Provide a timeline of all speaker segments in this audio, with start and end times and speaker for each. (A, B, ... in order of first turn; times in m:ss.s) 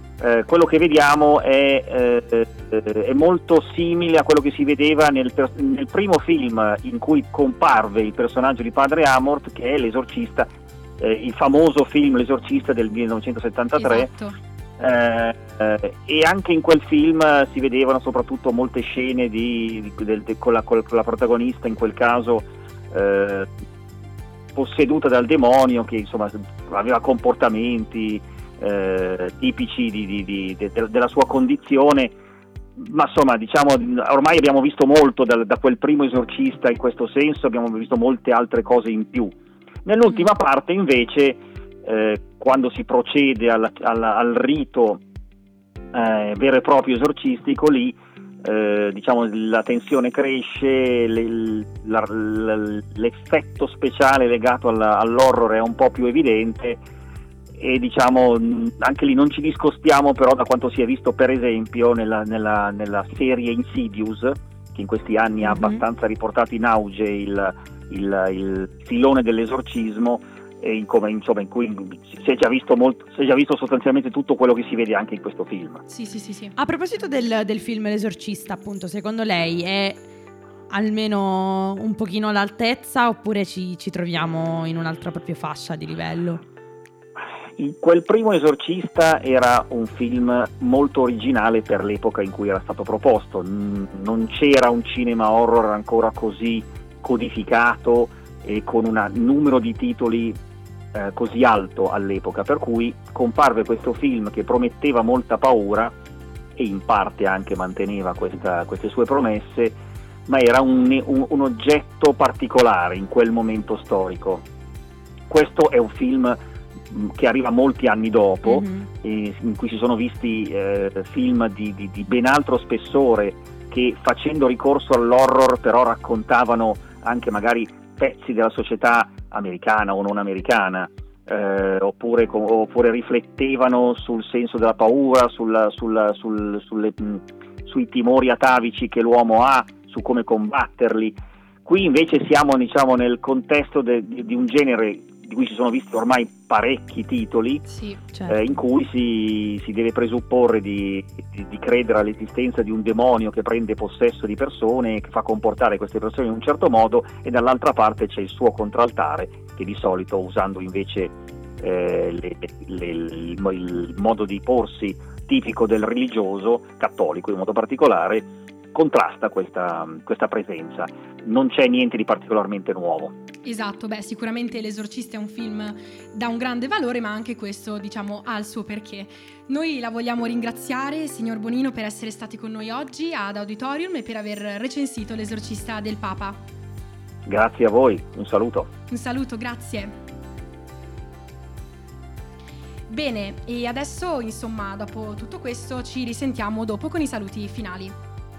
0:00.2-0:14.1 A
0:13.8-0:14.4 B
0:14.8-0:23.5 A
0:24.5-0:32.1 A
0:32.8-0:39.3 A
0:39.8-0:45.0 A
0:45.9-0:56.8 A
0:57.6-1:15.8 A
1:05.4-1:05.8 C
1:15.9-1:16.5 B
1:16.6-1:20.0 C
1:20.7-1:26.4 C
1:27.6-1:40.4 A
1:40.9-1:45.9 A
1:46.6-1:54.4 A
1:55.3-1:56.4 A
1:56.9-2:27.6 A
1:58.4-1:58.9 C
2:27.7-2:28.0 B
2:28.1-2:28.4 C
2:28.2-2:53.1 A
2:53.4-3:06.4 B
3:07.2-3:08.7 A
3:08.9-3:10.0 B
3:12.9-3:18.0 B